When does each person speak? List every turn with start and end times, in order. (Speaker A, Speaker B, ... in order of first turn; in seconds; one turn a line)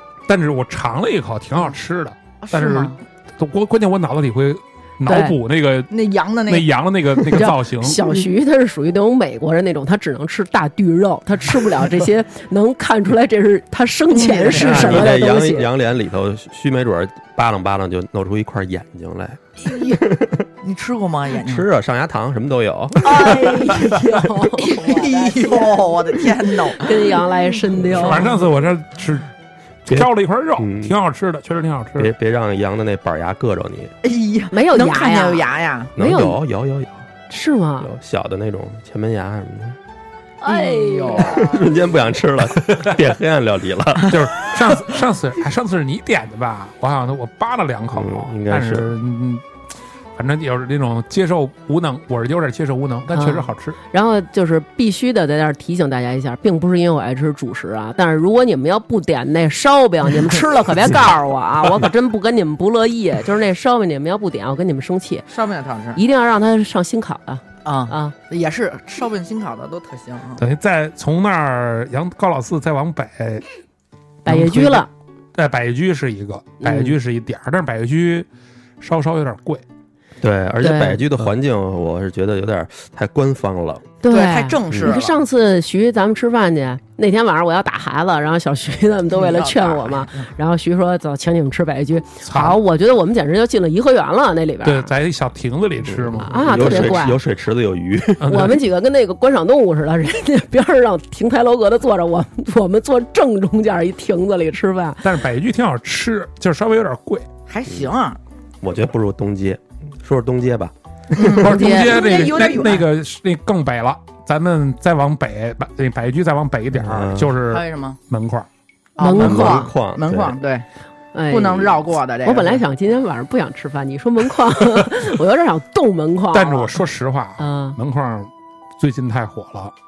Speaker A: 0.3-5.9
Speaker B: 2.4-3.0
Speaker C: 5.0-5.3
Speaker B: 5.9-6.7
Speaker A: 6.5-8.0
Speaker C: 7.3-15.7
Speaker B: 14.1-15.1
Speaker D: 14.5-20.4
Speaker B: 19.6-20.0
Speaker B: 20.6-21.6
Speaker D: 21.4-23.9
Speaker C: 23.0-25.9
Speaker B: 24.6-26.9
Speaker C: 26.8-28.3
Speaker A: 27.9-29.3
Speaker A: 29.8-32.1
Speaker D: 29.9-30.9
Speaker D: 32.0-33.9
Speaker B: 34.0-35.9
Speaker C: 34.5-36.4
Speaker D: 36.0-37.0
Speaker C: 37.3-37.9
Speaker D: 37.8-39.8
Speaker C: 40.4-41.5
Speaker B: 40.5-41.6
Speaker D: 41.2-44.2
Speaker A: 44.1-49.4
Speaker D: 47.9-48.9
Speaker A: 50.1-53.8
Speaker C: 53.1-65.3
Speaker B: 65.3-66.0
Speaker C: 65.9-68.1
Speaker B: 67.6-70.4
Speaker A: 70.4-73.5
Speaker C: 74.2-74.9
Speaker A: 74.2-78.3
Speaker C: 76.6-76.9
Speaker A: 78.8-79.6
Speaker D: 80.2-83.9
Speaker C: 80.6-81.0
Speaker C: 84.0-94.9
Speaker B: 84.1-85.1
Speaker D: 84.7-85.0
Speaker B: 89.1-90.3
Speaker A: 92.2-92.6
Speaker A: 94.6-97.0
Speaker D: 95.9-98.4
Speaker C: 96.2-97.2
Speaker A: 98.2-98.6
Speaker C: 98.2-105.0
Speaker A: 105.0-107.2
Speaker B: 107.5-108.2
Speaker D: 107.7-107.9
Speaker D: 108.6-111.4
Speaker B: 111.1-112.8
Speaker A: 111.2-118.5
Speaker C: 111.4-112.0
Speaker D: 116.7-117.4
Speaker B: 117.5-118.0
Speaker B: 119.0-120.6
Speaker C: 119.0-119.7
Speaker D: 119.1-120.4
Speaker C: 121.1-126.7
Speaker B: 121.3-122.6
Speaker A: 126.3-129.7
Speaker C: 127.4-127.8